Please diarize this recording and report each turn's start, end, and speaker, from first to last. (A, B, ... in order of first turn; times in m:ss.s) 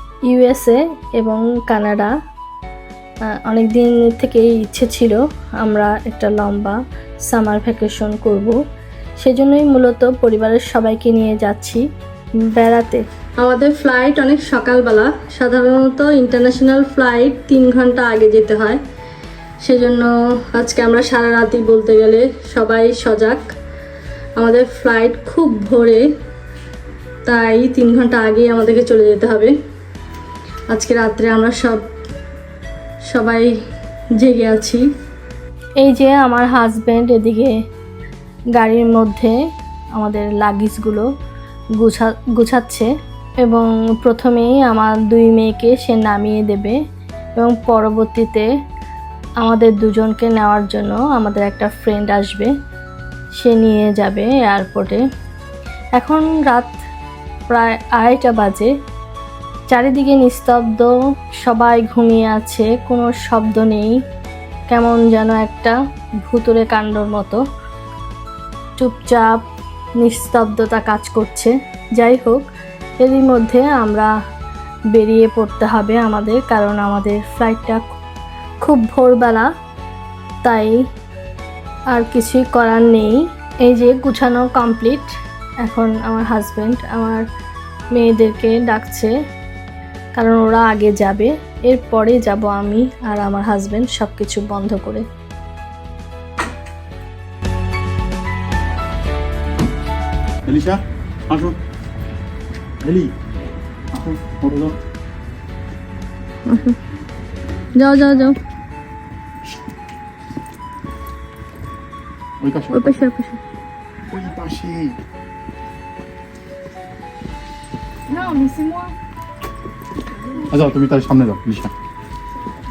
0:00.3-0:02.1 A
0:03.4-0:08.6 A
0:09.2-0:11.8 A
0:12.5-0:18.8 A
0:19.6-0:23.5 A
0:24.4-0:26.1 A
0:27.2-0:29.5 A
0:30.7-0:31.8 A
0:33.1-0:33.6 A
0:34.2-0:34.9 A
0:35.8-0:37.5 A
0:38.6-0:39.3 A
0:40.0-0:41.1 A
0:41.8-0:42.9 A
0:43.4-0:46.8 A
0:47.4-0:48.5 A
0:49.4-0:52.5 A
0:53.4-0:55.0 A
0:56.0-0:56.8 A
0:57.5-0:58.7 A
0:59.7-1:00.9 A
1:01.4-1:04.0 A
1:04.7-1:07.4 A
1:08.8-1:09.4 A
1:10.0-1:12.4 A
1:13.0-1:14.1 A
1:14.9-1:17.8 A
1:18.6-1:19.5 A
1:20.4-1:20.8 A
1:21.9-1:25.1 A
1:25.6-1:27.2 A
1:27.9-1:29.1 A
1:30.2-1:35.0 A
1:40.4-1:41.6 B
1:42.8-1:43.1 B
1:43.9-1:44.8 B
1:46.4-1:46.8 A
1:47.8-1:48.4 A
1:52.4-1:52.9 B
1:52.7-1:53.4 A
1:54.1-1:55.0 B
1:58.1-1:58.9 A
2:00.3-2:01.7 B